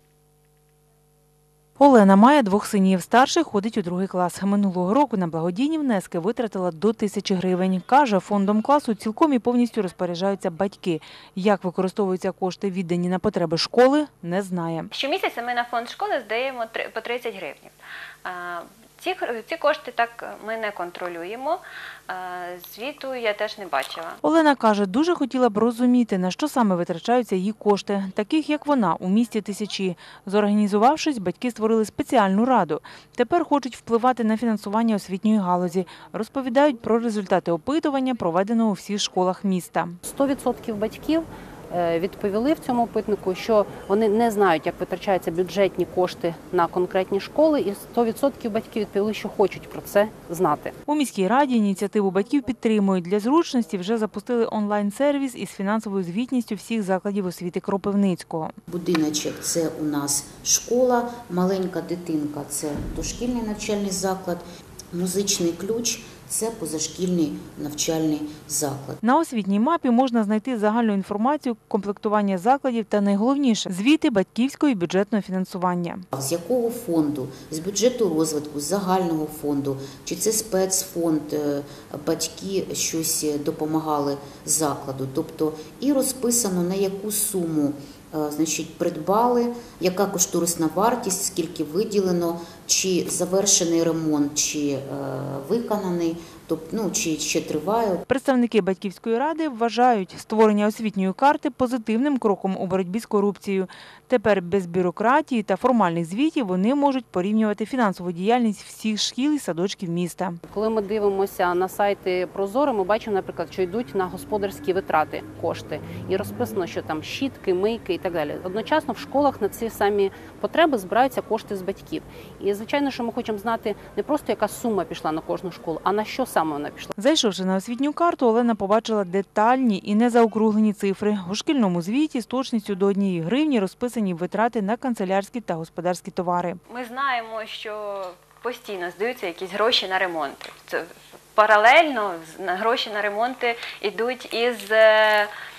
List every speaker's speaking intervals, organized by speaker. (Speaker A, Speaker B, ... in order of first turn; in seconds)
Speaker A: 1.8-14.9, 24.2-40.0, 50.9-58.5, 69.0-76.0, 98.1-110.4, 127.0-136.6
Speaker B: 14.9-24.2, 136.7-145.3
Speaker C: 40.0-50.8, 110.5-126.9
Speaker D: 58.7-69.0, 76.1-98.0